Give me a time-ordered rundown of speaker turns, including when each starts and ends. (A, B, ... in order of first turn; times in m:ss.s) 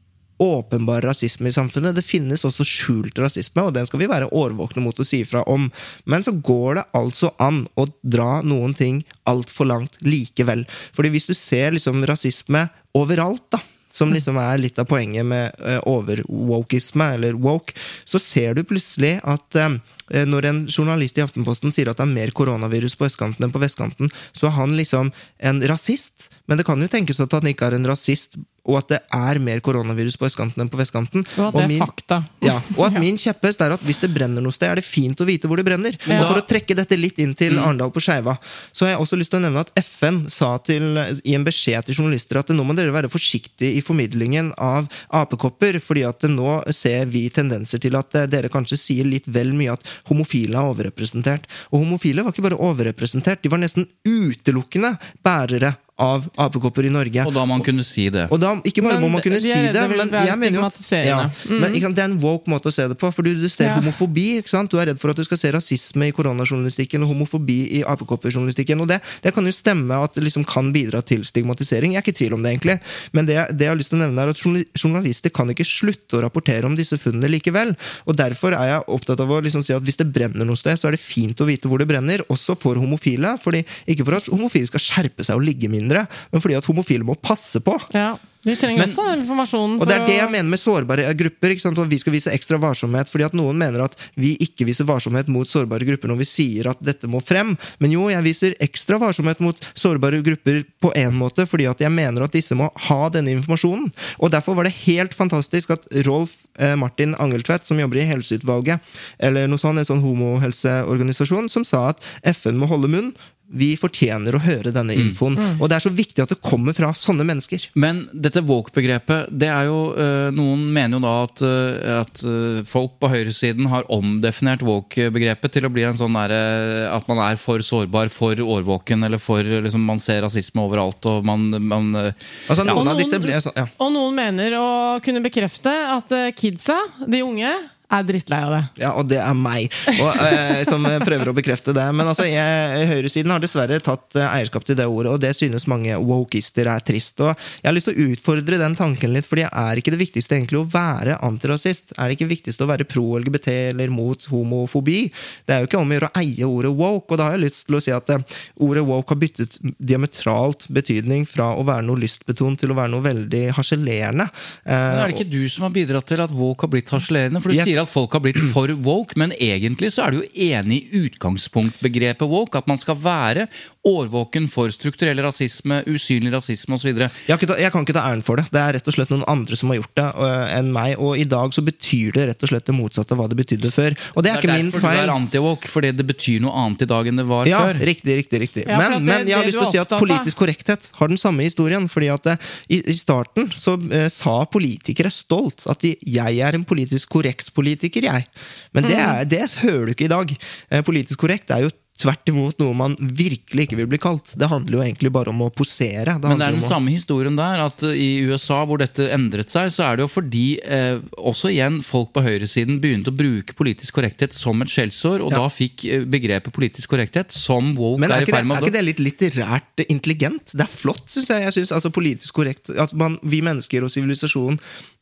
0:00.4-0:57.3 A
0:31.4-0:33.0 B
0:36.1-0:36.3 B
0:36.1-0:36.4 C
0:57.2-0:58.3 C
0:58.3-1:27.9 A
0:58.8-1:01.8 B
1:03.6-1:03.9 B
1:27.9-1:30.3 B
1:28.7-1:29.0 C
1:29.8-1:57.7 A
1:57.7-2:12.8 C
2:12.5-2:13.7 A
2:12.7-2:18.7 B
2:18.8-2:45.2 A
2:20.2-2:20.4 B
2:44.9-2:57.1 C
2:47.5-2:47.7 A
2:57.3-3:05.2 A
3:04.3-3:07.8 C
3:07.4-3:26.8 A
3:08.7-3:10.3 B
3:18.8-3:19.2 B
3:26.3-3:38.7 C
3:38.0-3:44.6 A